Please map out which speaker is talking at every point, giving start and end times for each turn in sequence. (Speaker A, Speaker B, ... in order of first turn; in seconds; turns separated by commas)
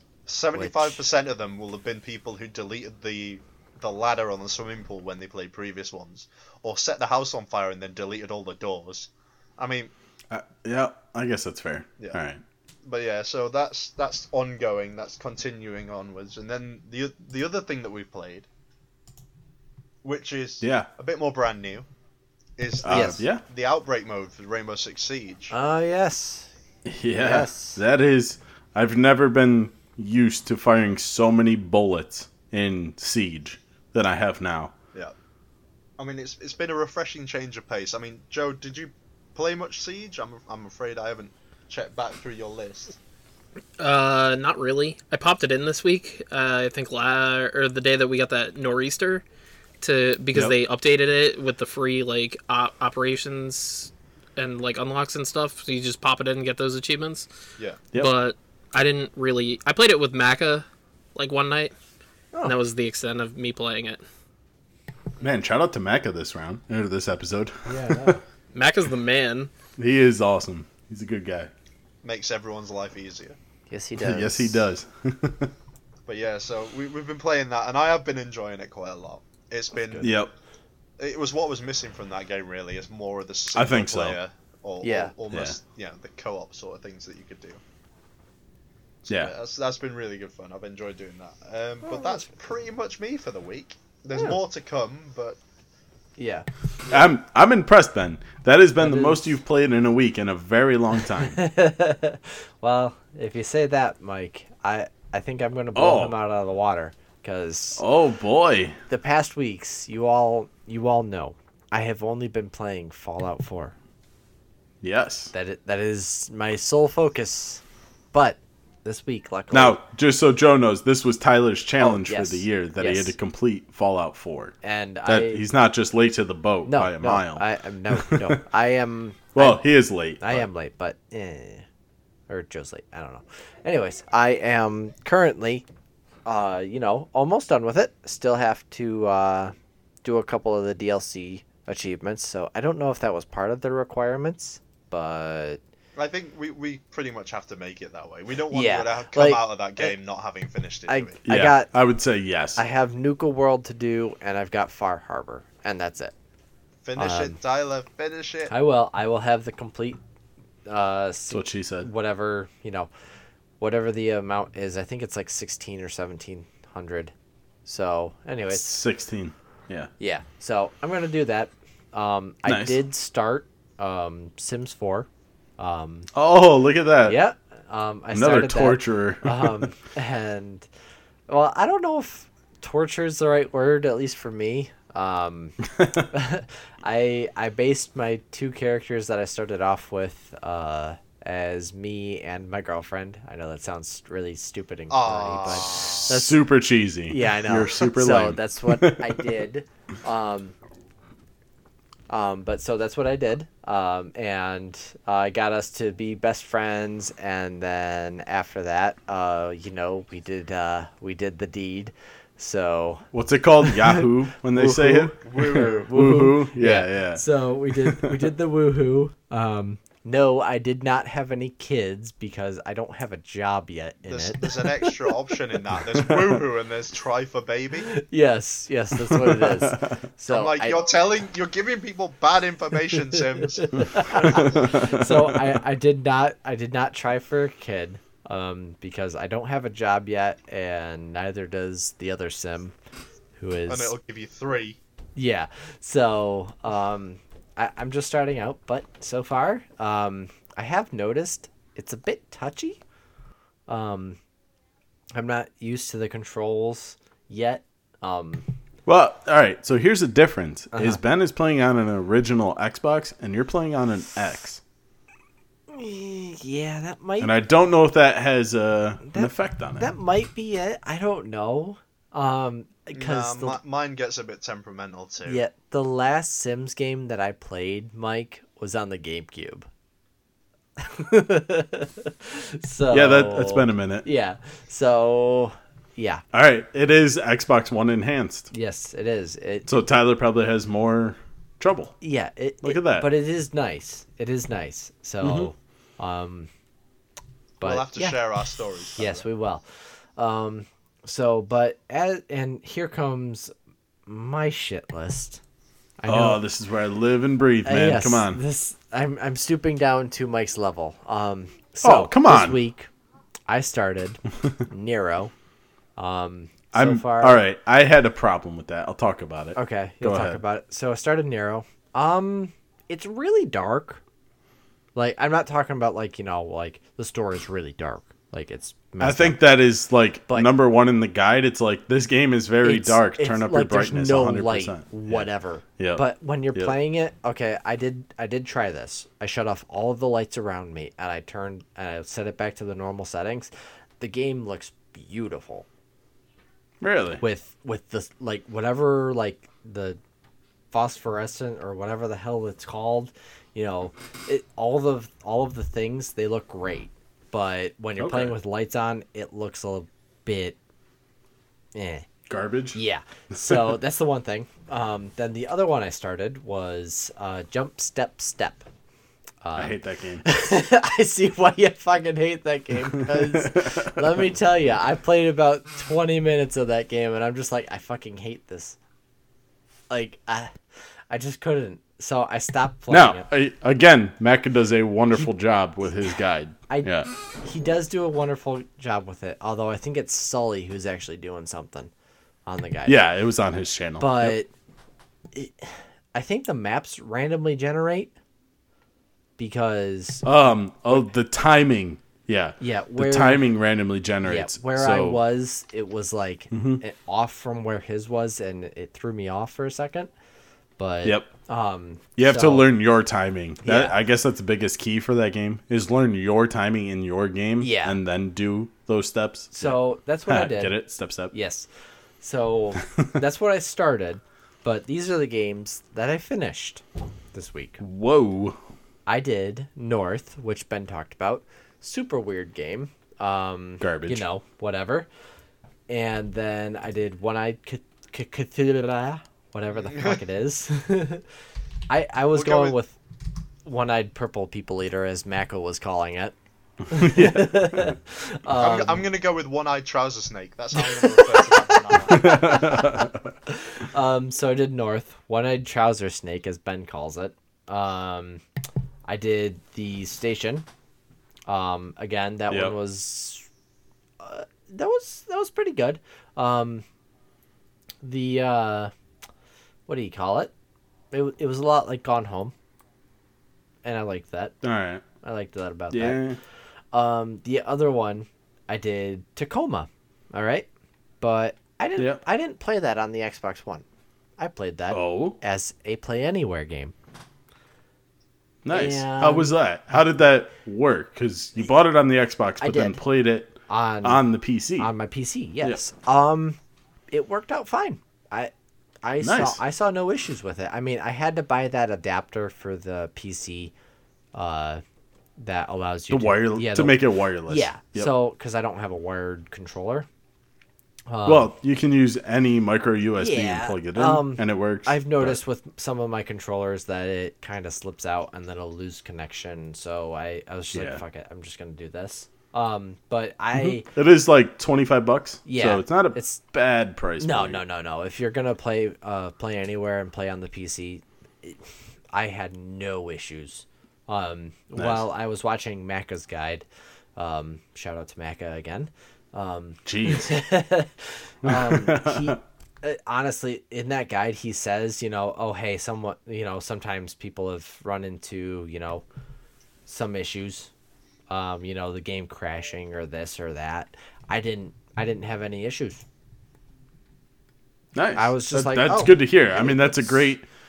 Speaker A: 0.3-9.9, Speaker B: 0.5-1.0, Speaker C: 10.3-12.4, Speaker A: 12.8-18.5, Speaker A: 20.0-21.9, Speaker C: 20.6-20.9, Speaker A: 22.6-25.5, Speaker C: 22.8-23.4, Speaker B: 22.9-23.2, Speaker B: 25.5-26.5, Speaker C: 26.9-34.7, Speaker B: 27.1-27.8, Speaker A: 36.0-43.0, Speaker D: 43.8-49.2, Speaker D: 49.8-57.3, Speaker D: 58.0-61.7, Speaker D: 62.4-64.0, Speaker C: 65.2-68.2, Speaker B: 67.7-68.2, Speaker D: 68.5-69.5, Speaker C: 69.8-71.5, Speaker A: 72.0-73.4, Speaker B: 73.7-74.6, Speaker C: 74.0-75.5, Speaker A: 76.1-80.2, Speaker C: 80.0-80.3, Speaker A: 81.0-87.6, Speaker C: 83.5-84.2, Speaker B: 84.8-85.1, Speaker C: 85.3-85.6, Speaker A: 89.0-95.4, Speaker C: 89.1-89.3, Speaker B: 91.8-92.3, Speaker B: 96.2-96.5, Speaker C: 96.9-101.4, Speaker B: 98.8-99.3, Speaker B: 101.3-107.8, Speaker C: 105.8-106.2, Speaker C: 107.8-108.8, Speaker B: 108.9-113.8, Speaker C: 114.8-115.3, Speaker B: 115.3-117.6, Speaker B: 118.1-119.8, Speaker C: 119.5-124.5, Speaker B: 121.8-123.2, Speaker B: 124.6-125.4, Speaker C: 125.1-128.4, Speaker B: 126.7-129.7, Speaker C: 129.3-130.5, Speaker B: 130.2-131.7, Speaker B: 132.3-135.7, Speaker B: 136.3-145.6, Speaker A: 146.0-151.2, Speaker B: 148.5-149.9, Speaker B: 150.9-151.7, Speaker C: 151.2-152.6, Speaker B: 152.6-156.1, Speaker A: 156.8-158.5, Speaker B: 157.0-157.4, Speaker B: 158.5-160.0, Speaker B: 160.7-162.9, Speaker C: 161.3-161.9, Speaker B: 163.6-167.1, Speaker B: 167.7-168.8, Speaker C: 168.5-169.9, Speaker B: 170.0-176.1, Speaker C: 172.5-172.8, Speaker C: 176.1-177.2, Speaker B: 177.0-180.7, Speaker C: 178.1-179.7, Speaker B: 181.3-196.4, Speaker C: 185.8-186.1, Speaker A: 194.9-196.1, Speaker C: 196.1-199.2, Speaker B: 197.1-200.6, Speaker B: 202.1-213.1, Speaker C: 213.1-218.2, Speaker B: 213.6-225.1, Speaker A: 215.2-215.9, Speaker A: 224.1-227.9, Speaker B: 227.9-230.8, Speaker C: 228.9-229.9, Speaker A: 230.3-234.7, Speaker B: 233.6-242.7, Speaker C: 234.3-235.4, Speaker B: 243.4-243.9, Speaker A: 243.7-244.8, Speaker B: 245.2-252.8, Speaker B: 253.7-254.2, Speaker B: 255.2-258.5, Speaker C: 258.9-264.6, Speaker B: 260.7-261.0, Speaker B: 265.7-267.3, Speaker C: 267.2-269.9, Speaker B: 269.1-273.6, Speaker A: 272.9-275.4, Speaker B: 275.2-279.7, Speaker B: 280.8-286.2, Speaker C: 282.9-284.1, Speaker C: 286.3-288.5, Speaker B: 288.5-289.7, Speaker C: 289.7-291.9, Speaker B: 292.0-296.5, Speaker C: 292.6-293.1, Speaker C: 295.2-295.5, Speaker B: 297.6-298.2, Speaker A: 297.6-299.2, Speaker B: 298.9-299.6, Speaker B: 300.2-303.5, Speaker B: 304.1-305.4, Speaker B: 306.0-306.4, Speaker C: 306.1-308.4, Speaker B: 307.6-312.9, Speaker C: 311.8-312.6, Speaker B: 313.5-315.3, Speaker B: 316.0-317.4, Speaker C: 316.7-320.4, Speaker B: 319.6-324.0, Speaker B: 324.9-329.5, Speaker C: 329.0-335.3, Speaker B: 332.6-345.7, Speaker C: 335.8-336.8, Speaker C: 346.8-347.2, Speaker B: 347.2-350.0, Speaker B: 350.7-360.6, Speaker C: 358.0-358.3, Speaker B: 361.8-362.1, Speaker C: 362.3-362.8, Speaker B: 362.7-368.7, Speaker B: 369.4-378.8, Speaker C: 369.6-370.2, Speaker C: 373.0-374.0, Speaker B: 379.9-380.5, Speaker B: 381.1-383.3, Speaker C: 382.9-387.1, Speaker B: 386.7-391.9, Speaker B: 392.5-393.0, Speaker C: 392.9-394.4, Speaker B: 394.0-394.5, Speaker B: 395.3-398.1, Speaker B: 399.4-400.2, Speaker C: 400.2-405.2, Speaker B: 402.6-403.5, Speaker B: 404.2-410.1, Speaker C: 406.5-406.8, Speaker B: 410.8-412.7, Speaker C: 412.2-421.3, Speaker B: 413.6-414.0, Speaker B: 417.6-418.0, Speaker B: 419.6-420.8, Speaker B: 421.3-421.7, Speaker B: 422.2-427.8, Speaker C: 427.8-428.6, Speaker B: 429.1-435.1, Speaker C: 433.8-434.2, Speaker B: 435.9-441.2, Speaker A: 439.9-440.2, Speaker B: 441.9-443.0, Speaker A: 442.4-442.8, Speaker B: 443.6-446.4, Speaker B: 446.9-449.1, Speaker C: 446.9-447.9, Speaker A: 448.5-452.6, Speaker B: 450.8-451.2, Speaker B: 452.0-458.4, Speaker C: 452.1-453.3, Speaker B: 459.1-460.7, Speaker B: 461.5-463.5, Speaker C: 462.5-462.8, Speaker B: 464.2-466.9, Speaker B: 468.0-468.9, Speaker B: 469.9-470.5, Speaker B: 471.1-472.5, Speaker B: 473.8-474.6, Speaker C: 474.6-475.0, Speaker B: 475.2-476.2, Speaker C: 475.9-476.4, Speaker B: 476.9-480.7, Speaker B: 481.2-483.9, Speaker B: 484.4-486.9, Speaker C: 484.9-485.4, Speaker C: 488.6-494.9, Speaker B: 488.7-489.5, Speaker B: 492.6-493.0, Speaker B: 493.7-494.2, Speaker B: 494.8-496.6, Speaker B: 497.1-498.5, Speaker B: 499.0-503.7, Speaker C: 499.2-499.6, Speaker B: 504.3-504.8, Speaker B: 505.4-510.1, Speaker C: 506.1-508.1, Speaker B: 511.1-511.5, Speaker C: 511.2-515.4, Speaker B: 513.2-523.9, Speaker C: 520.7-521.0, Speaker C: 523.5-527.6, Speaker B: 525.5-526.4, Speaker B: 527.2-531.6, Speaker B: 532.1-536.6, Speaker C: 534.8-535.1, Speaker B: 537.2-549.0, Speaker C: 539.9-540.4, Speaker C: 541.5-542.4, Speaker B: 549.9-550.7, Speaker B: 551.3-556.0, Speaker C: 558.0-560.5, Speaker B: 558.1-560.1